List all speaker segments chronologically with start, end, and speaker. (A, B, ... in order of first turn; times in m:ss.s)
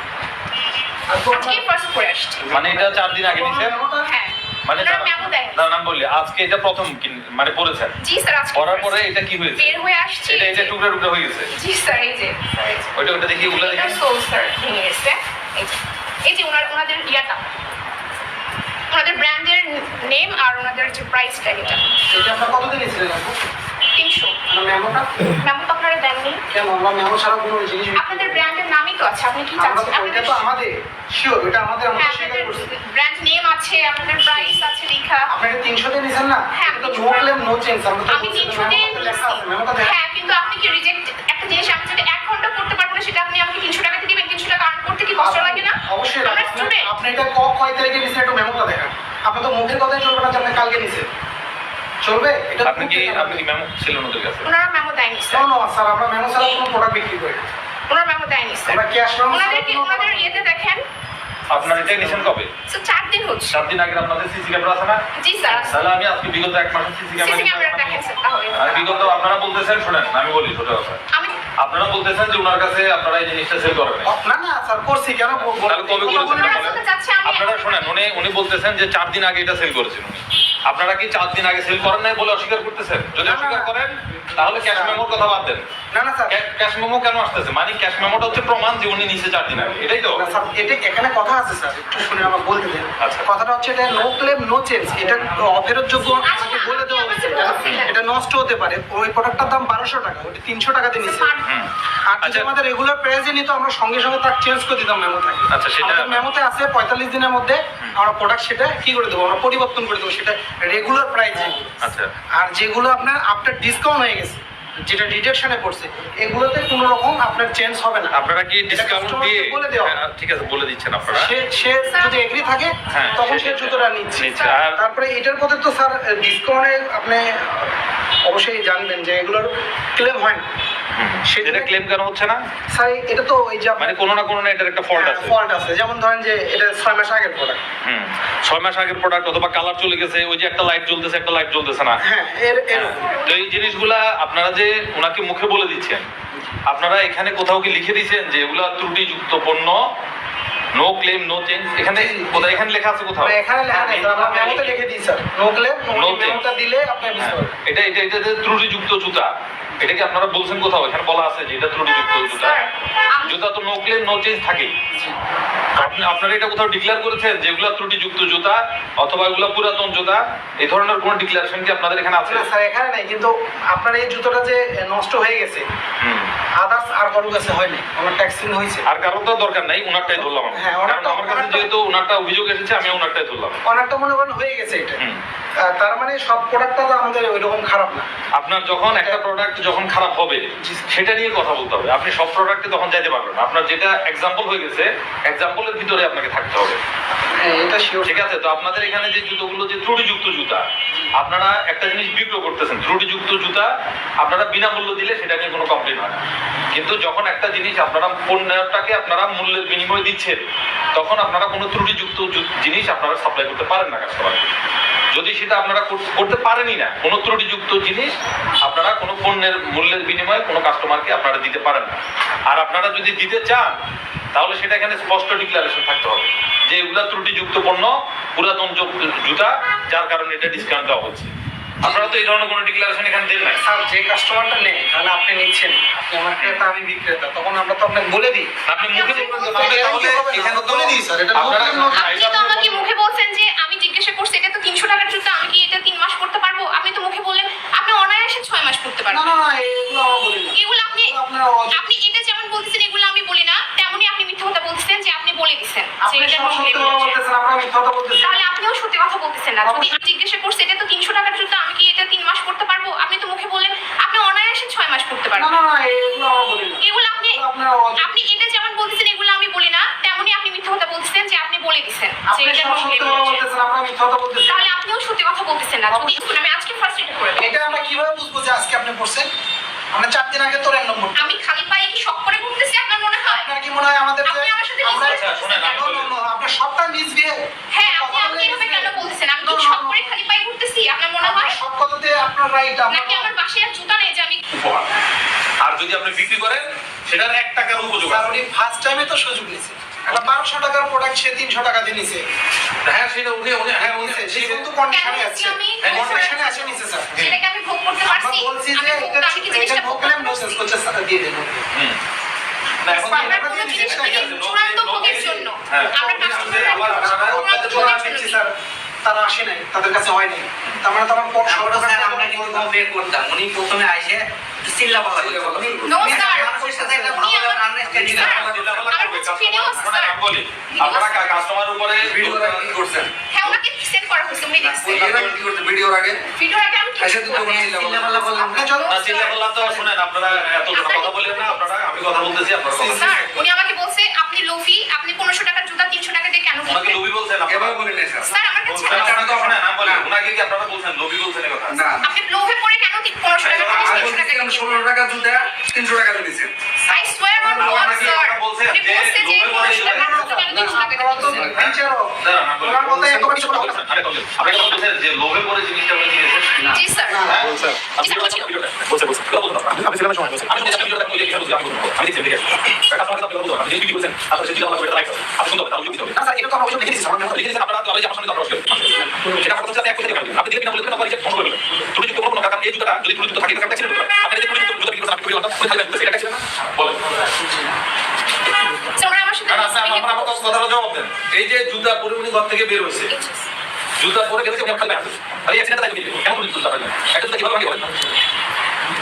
0:01.1-0:01.6 A
0:01.3-0:02.6 B
0:02.4-0:04.1 A
0:02.5-0:03.8 C
0:04.1-0:05.7 B
0:04.7-0:07.9 C
0:08.0-0:09.0 B
0:08.5-0:11.5 C
0:09.6-0:10.7 B
0:11.5-0:17.4 B
0:13.0-0:14.0 C
0:18.9-0:22.0 B
0:22.1-0:23.4 A
0:24.0-0:24.4 B
0:24.5-0:25.4 A
0:25.4-0:26.4 B
0:26.5-0:28.4 A
0:28.0-0:30.4 B
0:29.6-0:32.7 A
0:32.0-0:35.3 B
0:34.2-0:34.5 A
0:35.3-0:40.0 A
0:36.5-0:37.3 B
0:38.1-0:46.9 B
0:45.2-0:51.1 A
0:52.0-0:53.4 A
0:52.6-0:54.5 C
0:54.4-0:55.5 B
0:55.3-0:57.5 A
0:57.9-1:00.8 B
0:58.7-1:00.5 A
1:01.5-1:02.5 C
1:01.5-1:02.3 A
1:02.7-1:03.6 B
1:03.5-1:05.0 C
1:05.2-1:05.8 B
1:05.6-1:08.0 C
1:07.2-1:08.8 B
1:08.5-1:11.0 C
1:08.8-1:09.2 A
1:11.6-1:14.1 C
1:14.0-1:16.8 A
1:15.4-1:25.7 C
1:16.1-1:18.1 B
1:23.2-1:23.7 A
1:24.6-1:25.2 A
1:25.9-1:26.4 A
1:26.3-1:30.2 C
1:30.1-1:41.3 A
1:33.0-1:33.3 C
1:36.1-1:38.0 B
1:37.6-1:38.0 C
1:41.0-1:41.5 B
1:41.4-1:42.5 C
1:42.1-1:51.8 A
1:45.5-1:46.3 C
1:51.8-1:52.1 C
1:52.4-1:58.2 A
1:58.1-2:01.4 C
1:58.7-2:00.0 A
2:01.1-2:10.4 A
2:01.8-2:03.3 B
2:02.9-2:04.8 C
2:11.0-2:12.4 C
2:11.3-2:11.7 A
2:12.7-2:14.0 A
2:13.8-2:15.4 C
2:14.9-2:17.6 A
2:17.8-2:22.0 C
2:22.0-2:23.0 A
2:22.7-2:26.1 C
2:22.8-2:23.9 B
2:26.3-2:26.6 A
2:26.7-2:29.8 C
2:30.7-2:34.8 C
2:31.9-2:32.6 A
2:33.2-2:37.5 A
2:33.9-2:34.4 D
2:35.9-2:36.5 C
2:37.2-2:42.6 C
2:42.3-2:43.4 B
2:43.2-2:44.7 C
2:44.9-2:45.2 A
2:45.8-2:52.5 C
2:52.3-2:55.6 A
2:56.0-2:56.3 C
2:56.6-2:58.8 A
2:58.9-3:03.6 C
3:00.1-3:01.7 A
3:03.6-3:05.0 A
3:05.7-3:08.1 A
3:08.4-3:16.8 C
3:08.9-3:09.2 A
3:10.6-3:10.9 A
3:17.3-3:18.2 A
3:18.0-3:20.7 C
3:21.2-3:23.7 C
3:24.2-3:26.2 C
3:26.7-3:30.4 C
3:30.9-3:34.5 C
3:35.1-3:38.1 C
3:38.6-3:42.0 C
3:42.5-3:43.8 C
3:44.3-3:51.3 C
3:51.8-3:52.2 A
3:51.8-3:53.6 C
3:53.6-3:58.5 A
3:58.7-4:02.4 C
3:58.9-3:59.9 B
3:59.1-4:02.9 A
4:01.9-4:09.3 B
4:09.1-4:11.8 A
4:10.6-4:11.1 B
4:11.7-4:17.2 B
4:16.0-4:18.5 A
4:18.2-4:25.6 B
4:19.6-4:20.0 A
4:25.4-4:28.4 A
4:26.8-4:27.4 B
4:28.0-4:33.5 B
4:32.3-4:34.7 A
4:34.5-4:37.6 B
4:35.9-4:36.2 A
4:37.4-4:39.3 A
4:39.9-4:41.4 A
4:41.2-4:43.5 B
4:43.2-4:50.2 A
4:44.3-4:45.9 B
4:45.0-4:46.1 C
4:47.7-4:51.6 B
4:51.2-4:53.3 A
4:52.9-4:54.4 B
4:54.5-4:54.9 C
4:55.6-4:58.3 C
4:58.0-5:02.2 A
5:02.8-5:04.7 C
5:03.9-5:07.1 A
5:04.9-5:10.7 B
5:05.8-5:06.6 C
5:07.1-5:07.4 C
5:08.1-5:11.6 A
5:11.7-5:12.0 C
5:12.8-5:18.0 C
5:12.9-5:14.4 A
5:12.9-5:18.4 B
5:15.2-5:18.5 A
5:19.0-5:22.7 A
5:21.4-5:28.8 D
5:25.1-5:27.2 E
5:25.8-5:30.2 B
5:27.9-5:32.8 C
5:30.7-5:31.4 B
5:31.9-5:33.1 E
5:33.3-5:35.3 B
5:34.6-5:35.4 D
5:34.8-5:36.2 E
5:36.3-5:39.4 B
5:37.0-5:38.4 E
5:37.3-5:38.7 D
5:38.4-5:39.0 A
5:38.8-5:43.2 C
5:40.7-5:41.9 B
5:42.7-5:43.4 A
5:42.9-5:47.0 B
5:46.7-5:47.9 C
5:47.5-5:48.3 E
5:48.2-5:49.3 B
5:48.6-5:51.9 C
5:48.9-5:50.0 E
5:51.7-5:52.1 E
5:52.0-5:54.9 B
5:53.4-5:54.2 C
5:53.6-5:56.5 E
5:56.9-6:01.6 B
5:57.4-5:58.1 A
5:57.4-6:00.4 C
5:59.5-6:03.8 A
6:01.5-6:06.7 C
6:06.6-6:07.3 B
6:07.1-6:07.5 A
6:07.2-6:16.3 C
6:08.0-6:08.5 B
6:16.3-6:17.1 A
6:16.9-6:27.0 C
6:19.1-6:19.4 A
6:27.4-6:27.7 A
6:29.0-6:30.6 B
6:29.5-6:33.1 C
6:33.1-6:33.5 B
6:34.0-6:37.9 C